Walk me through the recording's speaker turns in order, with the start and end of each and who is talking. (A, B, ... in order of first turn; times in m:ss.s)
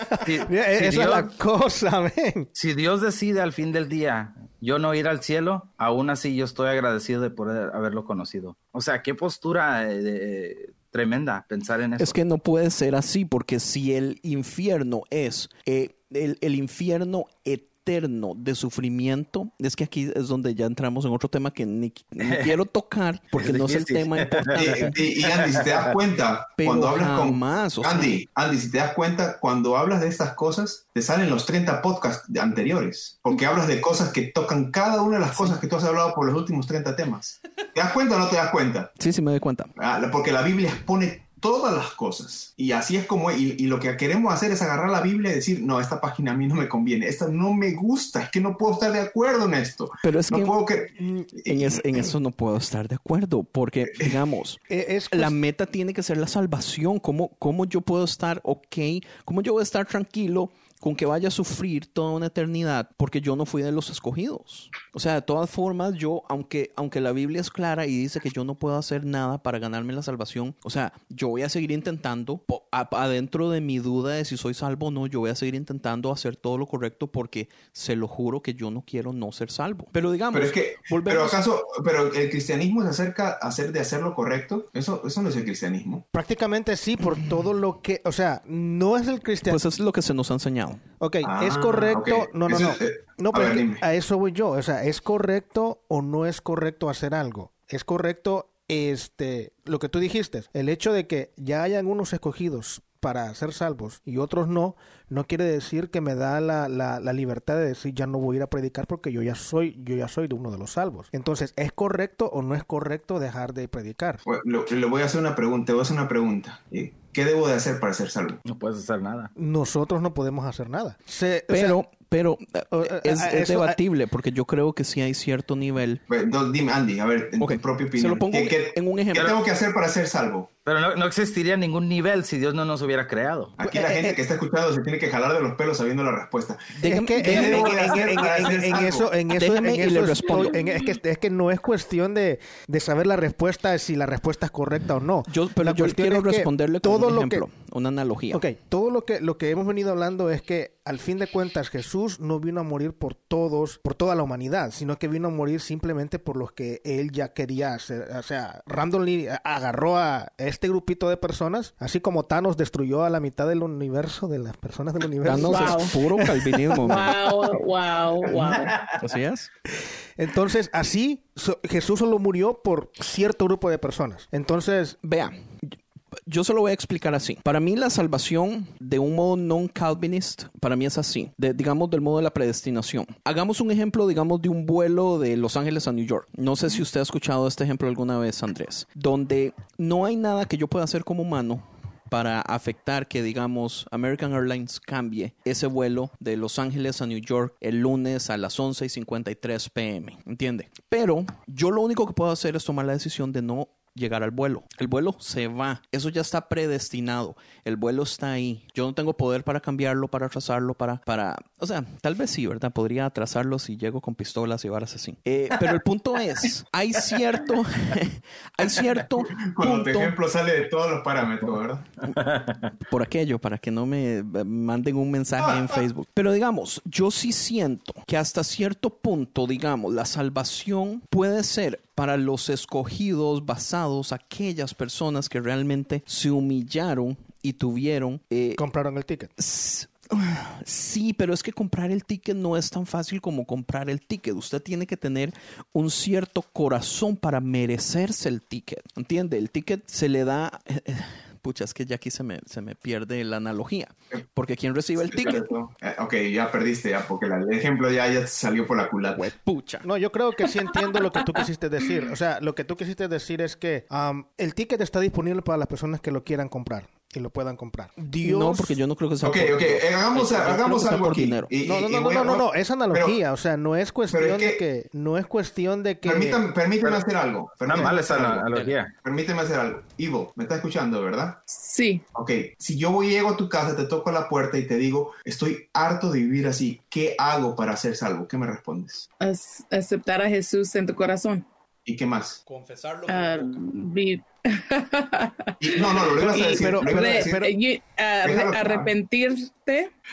0:00.2-0:01.3 A
0:00.3-0:02.5 B
0:02.6-0:12.2 A
0:12.0-0:25.0 C
0:22.2-0:22.6 A
0:23.3-0:25.9 A
0:24.5-0:38.9 D
0:26.6-0:28.2 C
0:39.0-0:39.7 C
0:39.8-0:51.8 D
0:50.0-0:50.5 C
0:51.0-0:51.3 B
0:51.4-1:21.4 C
0:53.9-0:54.2 D
0:54.7-0:55.4 B
1:20.3-1:26.0 D
1:26.1-1:29.6 B
1:29.5-1:30.8 C
1:31.0-1:54.2 B
1:31.2-1:33.8 D
1:54.2-1:58.4 D
1:58.5-1:59.3 A
1:59.4-2:01.8 B
2:01.5-2:06.0 C
2:02.7-2:03.8 B
2:06.1-2:10.5 D
2:07.4-2:09.4 C
2:10.7-2:13.6 A
2:13.6-2:19.1 D
2:13.6-2:14.2 B
2:16.8-2:18.0 C
2:16.8-2:27.4 B
2:19.3-2:20.6 C
2:25.3-2:28.4 C
2:28.3-2:47.1 B
2:45.2-2:47.2 C
2:45.4-2:45.9 E
2:46.8-2:48.7 E
2:49.0-2:49.5 C
2:50.2-2:55.0 B
2:55.0-2:55.3 C
2:56.3-3:40.2 C
3:39.4-3:41.8 D
3:42.3-3:42.5 A
3:42.8-3:58.6 C
3:58.6-3:59.3 B
3:59.4-4:15.4 C
4:15.0-4:19.3 D
4:19.1-4:19.8 C
4:19.8-4:28.8 B
4:28.2-4:31.5 C
4:29.2-4:33.2 D
4:31.6-4:36.4 B
4:34.1-4:34.6 D
4:36.0-4:41.5 D
4:37.6-4:38.9 A
4:41.5-4:42.0 E
4:42.2-4:49.1 D
4:49.2-4:51.4 E
4:51.9-4:52.4 D
4:52.5-4:53.6 C
4:53.1-4:59.9 E
4:55.6-4:57.5 D
4:56.2-4:57.5 B
4:58.2-4:58.9 D